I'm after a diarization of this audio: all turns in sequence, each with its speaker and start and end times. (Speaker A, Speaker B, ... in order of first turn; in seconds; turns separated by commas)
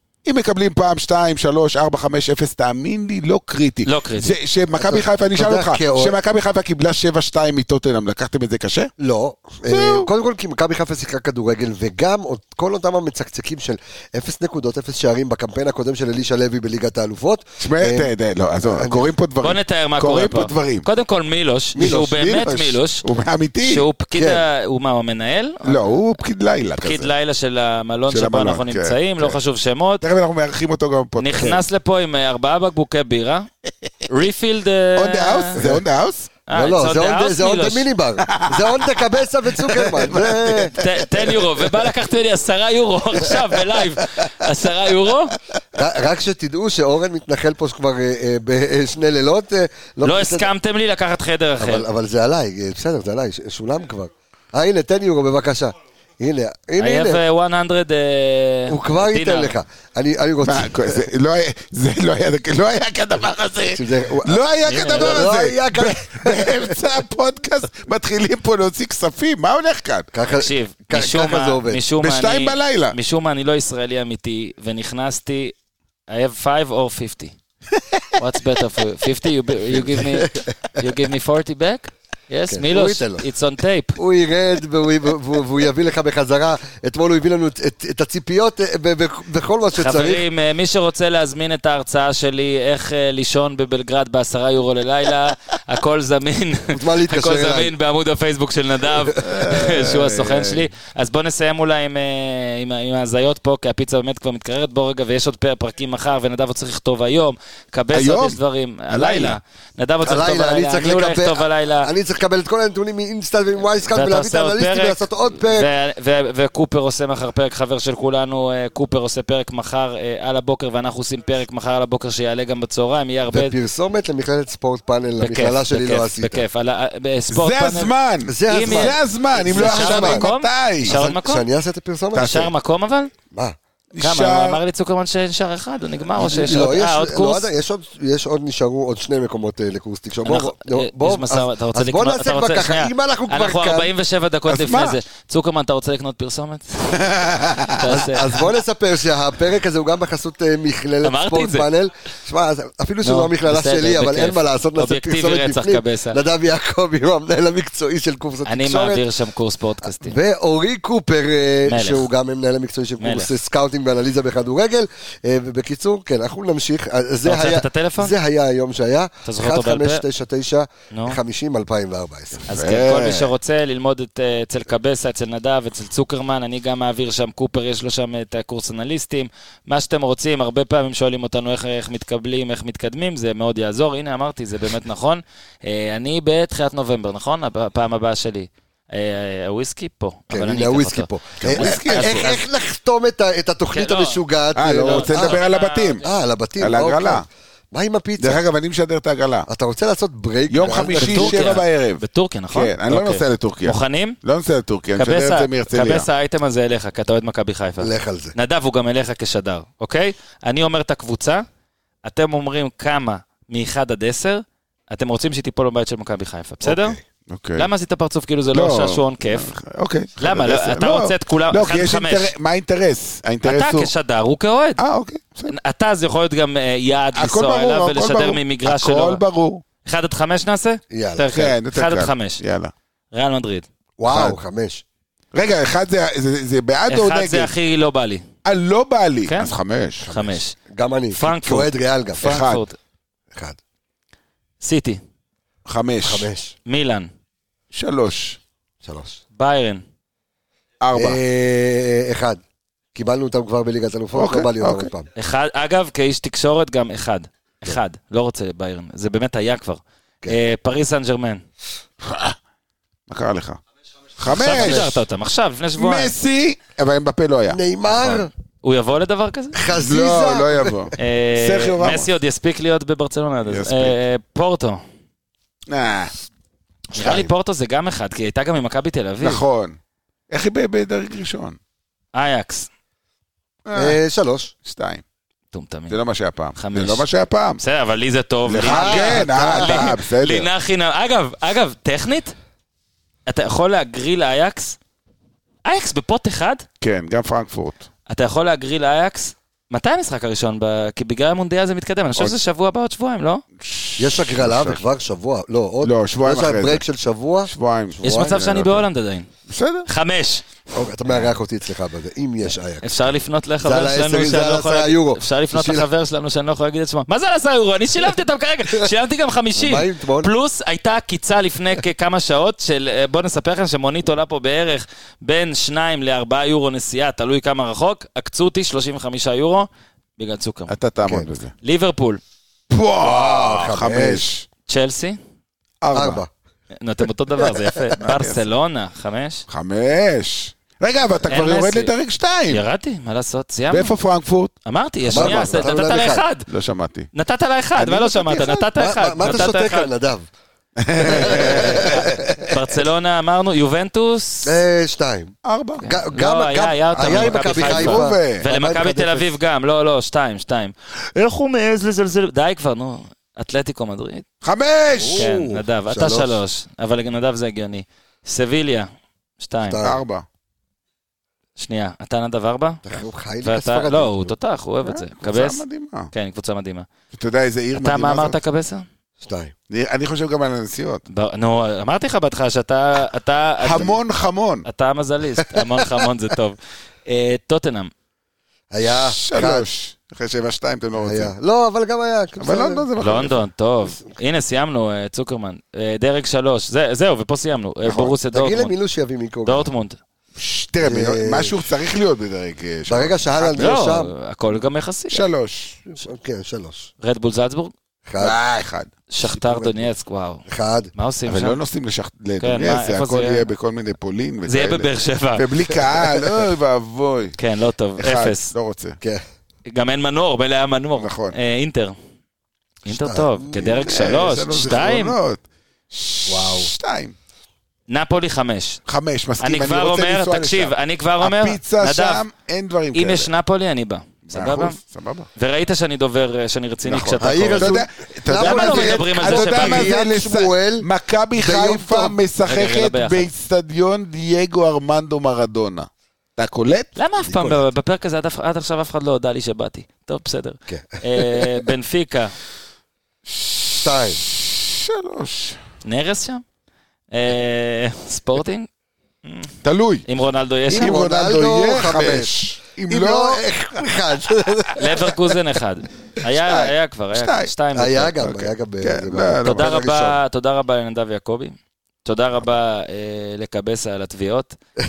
Speaker A: 0.2-8.9, Speaker B: 3.9-4.3, Speaker C: 4.7-6.1, Speaker C: 9.0-18.1, Speaker A: 9.7-10.1, Speaker A: 17.6-20.9, Speaker C: 18.6-19.1, Speaker B: 19.4-23.0, Speaker A: 21.8-23.9, Speaker B: 23.6-26.1, Speaker C: 24.1-24.4, Speaker A: 25.6-27.1, Speaker B: 26.8-30.0, Speaker A: 28.1-29.4, Speaker A: 30.0-31.6, Speaker B: 31.2-33.5, Speaker B: 34.1-35.6, Speaker A: 35.0-36.3, Speaker C: 35.6-35.8, Speaker B: 36.5-37.9, Speaker C: 36.5-40.8, Speaker A: 38.3-38.9, Speaker A: 39.6-41.3, Speaker B: 40.8-45.4, Speaker C: 45.7-50.5, Speaker B: 50.0-51.9, Speaker C: 51.6-57.2, Speaker B: 56.8-59.6, Speaker C: 58.7-61.0, Speaker A: 60.4-70.1, Speaker C: 63.7-66.9, Speaker B: 64.7-65.3, Speaker C: 70.1-71.8, Speaker B: 70.4-75.5, Speaker A: 72.0-73.0, Speaker B: 76.1-77.3, Speaker B: 78.2-84.0, Speaker C: 79.8-80.5, Speaker C: 82.5-83.2, Speaker C: 84.0-90.2, Speaker B: 89.7-111.9, Speaker C: 96.7-97.7, Speaker A: 99.2-100.6, Speaker A: 107.9-108.4, Speaker A: 108.9-109.4, Speaker C: 110.0-115.7, Speaker B: 113.9-123.5, Speaker C: 123.3-126.4, Speaker B: 125.2-127.9, Speaker A: 127.3-131.0, Speaker C: 128.3-130.2, Speaker B: 128.5-131.5, Speaker C: 130.8-132.5, Speaker B: 132.1-133.1, Speaker A: 132.2-132.4, Speaker A: 133.9-134.6, Speaker B: 134.0-137.5, Speaker C: 136.1-143.9, Speaker B: 140.2-147.2, Speaker A: 144.5-145.0, Speaker A: 146.9-147.9, Speaker B: 147.7-148.3, Speaker C: 147.8-159.0, Speaker B: 151.0-151.7, Speaker B: 153.0-156.2, Speaker B: 158.4-160.2, Speaker C: 159.8-172.5, Speaker B: 161.7-162.1, Speaker B: 163.0-163.3, Speaker B: 167.2-168.1, Speaker B: 169.2-170.0, Speaker B: 170.9-171.2, Speaker A: 172.4-173.3, Speaker B: 172.5-192.4, Speaker C: 190.3-195.4, Speaker A: 191.4-192.3, Speaker B: 193.7-194.2, Speaker A: 194.5-196.0, Speaker B: 194.8-196.2, Speaker C: 196.0-198.4, Speaker A: 196.6-197.2, Speaker A: 198.2-199.5, Speaker C: 199.5-201.5, Speaker A: 200.5-206.1, Speaker B: 200.9-204.2, Speaker B: 204.9-211.4, Speaker C: 207.8-208.3, Speaker B: 212.0-217.0, Speaker C: 216.6-217.0, Speaker A: 217.3-217.7, Speaker B: 217.6-219.5, Speaker A: 218.5-223.9, Speaker B: 220.2-222.3, Speaker B: 223.4-224.8, Speaker A: 224.8-225.6, Speaker B: 225.5-229.2, Speaker A: 227.1-229.6, Speaker B: 229.8-232.4, Speaker C: 230.9-231.3, Speaker A: 231.3-232.7, Speaker B: 233.1-233.7, Speaker C: 234.0-234.8, Speaker A: 234.1-234.4, Speaker A: 235.3-237.5, Speaker B: 236.9-238.2, Speaker A: 238.4-240.1, Speaker B: 239.3-239.5, Speaker C: 240.0-242.3, Speaker B: 240.1-240.6, Speaker B: 241.1-242.8, Speaker A: 242.2-242.6, Speaker C: 243.3-243.6, Speaker B: 244.6-245.0, Speaker A: 245.7-246.3, Speaker C: 246.0-246.5, Speaker B: 246.7-247.1, Speaker A: 247.7-248.4, Speaker C: 248.8-249.2, Speaker B: 249.4-249.8, Speaker A: 250.8-251.2, Speaker C: 250.9-252.4, Speaker C: 252.9-255.1, Speaker A: 254.1-254.9, Speaker B: 255.1-261.4, Speaker A: 262.0-262.4, Speaker A: 263.1-263.6, Speaker A: 264.2-265.0, Speaker B: 264.3-266.1, Speaker A: 265.8-267.6, Speaker C: 267.5-268.3, Speaker B: 268.0-269.6, Speaker C: 269.5-270.9, Speaker A: 269.8-272.1, Speaker B: 271.0-274.8, Speaker A: 273.5-273.9, Speaker A: 275.7-276.1, Speaker B: 276.9-279.4, Speaker C: 276.9-277.3, Speaker A: 279.2-279.7, Speaker A: 280.3-281.6, Speaker B: 282.1-282.7, Speaker A: 283.6-284.0, Speaker C: 283.7-284.5, Speaker A: 284.6-285.0, Speaker B: 285.5-286.0, Speaker A: 285.9-287.6, Speaker B: 286.6-287.1, Speaker B: 287.6-292.3, Speaker A: 288.5-290.5, Speaker C: 288.6-289.9, Speaker B: 293.3-294.8, Speaker B: 295.6-296.6, Speaker A: 296.8-297.8, Speaker B: 298.1-303.4, Speaker A: 303.6-304.8, Speaker C: 304.0-308.4, Speaker A: 305.8-306.8, Speaker A: 307.5-308.8, Speaker B: 308.0-309.3, Speaker A: 309.5-309.9, Speaker B: 309.9-310.4, Speaker C: 310.7-313.1, Speaker B: 312.8-330.7, Speaker C: 313.6-315.9, Speaker C: 319.5-320.3, Speaker A: 330.7-331.5, Speaker C: 331.0-331.3, Speaker B: 331.6-332.2, Speaker A: 332.7-334.4, Speaker C: 333.0-334.2, Speaker B: 334.7-335.2, Speaker A: 335.8-336.2, Speaker C: 335.9-336.3, Speaker B: 336.7-339.4, Speaker C: 337.4-337.8, Speaker A: 338.0-338.5, Speaker A: 339.5-342.6, Speaker B: 341.3-341.9, Speaker B: 342.5-343.9, Speaker A: 343.7-344.5, Speaker B: 344.6-346.4, Speaker A: 345.0-345.7, Speaker C: 345.1-346.2, Speaker A: 346.5-347.1, Speaker B: 347.1-349.9, Speaker A: 347.8-348.6, Speaker C: 348.8-350.3, Speaker A: 350.8-352.5, Speaker C: 351.0-352.6, Speaker B: 351.0-354.6, Speaker C: 354.4-359.3, Speaker A: 355.4-355.9, Speaker B: 355.8-364.2, Speaker A: 357.0-358.4, Speaker A: 364.4-365.3, Speaker C: 365.0-366.4, Speaker B: 365.2-368.9, Speaker B: 369.4-369.8, Speaker C: 369.6-370.0, Speaker A: 369.8-370.2, Speaker B: 371.6-372.8, Speaker C: 372.8-374.3, Speaker B: 373.4-376.9, Speaker A: 374.8-376.1, Speaker A: 377.1-378.4, Speaker B: 377.8-378.8, Speaker C: 379.2-379.5, Speaker A: 379.7-381.0, Speaker B: 381.1-384.0, Speaker A: 383.6-384.6, Speaker B: 384.6-387.9, Speaker C: 388.7-389.6, Speaker A: 388.8-391.3, Speaker C: 391.0-392.9, Speaker A: 392.4-393.4, Speaker B: 393.0-398.7, Speaker C: 397.9-399.7, Speaker B: 399.4-400.0, Speaker A: 400.4-403.8, Speaker C: 400.8-401.6, Speaker C: 402.9-404.1, Speaker B: 403.6-405.2, Speaker A: 405.1-405.9, Speaker C: 405.9-406.9, Speaker B: 407.0-407.7, Speaker C: 408.1-408.4, Speaker A: 408.2-409.9, Speaker B: 409.1-411.6, Speaker C: 410.5-410.9, Speaker A: 411.2-417.4, Speaker B: 412.4-413.4, Speaker B: 414.4-415.4, Speaker C: 415.9-416.3, Speaker B: 417.4-418.5, Speaker A: 418.0-419.0, Speaker B: 419.6-421.9, Speaker A: 420.9-421.3, Speaker B: 422.8-425.1, Speaker C: 422.9-423.9, Speaker A: 423.8-427.1, Speaker C: 426.3-426.7, Speaker B: 427.9-428.8, Speaker A: 428.9-433.3, Speaker B: 429.4-432.2, Speaker B: 432.9-434.8, Speaker A: 434.3-435.3, Speaker B: 435.4-437.8, Speaker A: 436.8-446.9, Speaker C: 437.2-442.2, Speaker B: 438.3-439.9, Speaker B: 442.4-443.3, Speaker B: 446.9-452.3, Speaker C: 447.2-447.6, Speaker C: 450.7-451.6, Speaker A: 453.3-455.6, Speaker C: 453.8-454.2, Speaker B: 455.8-456.4, Speaker B: 457.1-458.7, Speaker B: 459.2-459.5, Speaker A: 459.6-460.0, Speaker B: 460.1-461.0, Speaker C: 460.7-462.3, Speaker A: 460.7-463.6, Speaker C: 462.9-465.1, Speaker A: 464.5-464.8, Speaker B: 464.7-468.2, Speaker A: 466.3-467.5, Speaker C: 467.7-469.9, Speaker A: 468.1-470.1, Speaker B: 469.4-474.6